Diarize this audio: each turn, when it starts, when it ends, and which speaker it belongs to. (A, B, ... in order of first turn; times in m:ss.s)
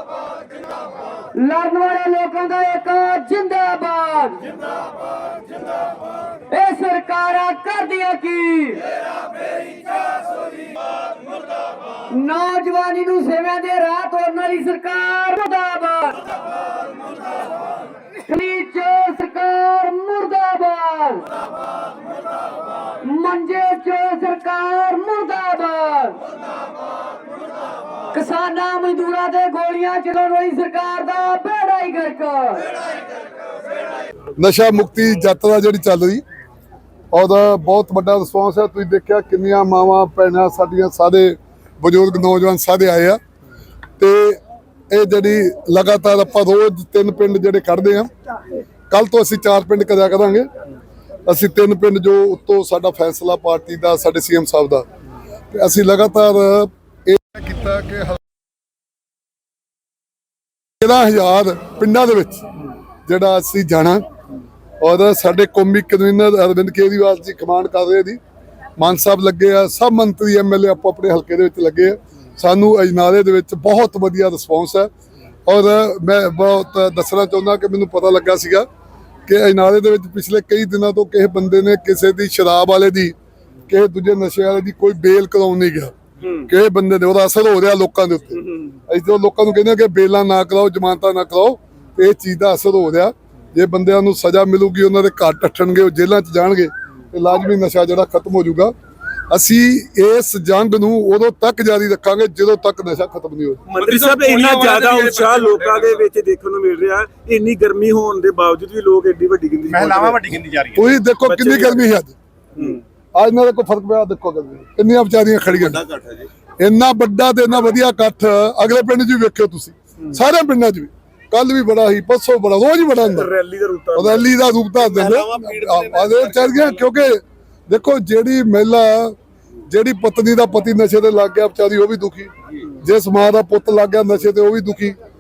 0:01.4-0:04.4 A
0:06.5-0:08.8 A
0:12.1-0:16.2 A
0:18.2-0:21.3 A
0:23.0-0:26.2 A
0:28.1-0:32.7 A
0:34.4-0:36.2 B
0:37.1-0:43.2 B
0:44.0-0:44.4 B
0:44.9-0:48.1 B
0:48.9-0:50.5 B
0:51.3-0:54.9 B
0:55.5-0:58.2 B
1:00.8-1:02.5 B
1:03.1-1:04.0 B
1:04.8-1:08.2 B
1:08.8-1:14.9 B
1:15.5-1:18.7 B
1:19.3-1:23.1 B
1:23.7-1:25.9 B
1:26.2-1:26.5 C
1:26.5-1:38.7 B
1:28.3-1:28.8 C
1:39.3-1:43.6 B
1:43.7-1:50.3 C
1:43.8-1:46.0 D
1:49.7-1:51.0 D
1:50.8-1:52.2 B
1:51.2-1:51.9 C
1:52.6-1:52.8 C
1:53.2-1:55.8 B
1:55.6-1:56.3 C
1:56.6-2:03.3 B
2:03.0-2:04.4 C
2:04.0-2:09.2 B
2:04.8-2:06.9 D
2:09.7-2:12.3 B
2:12.8-2:15.0 B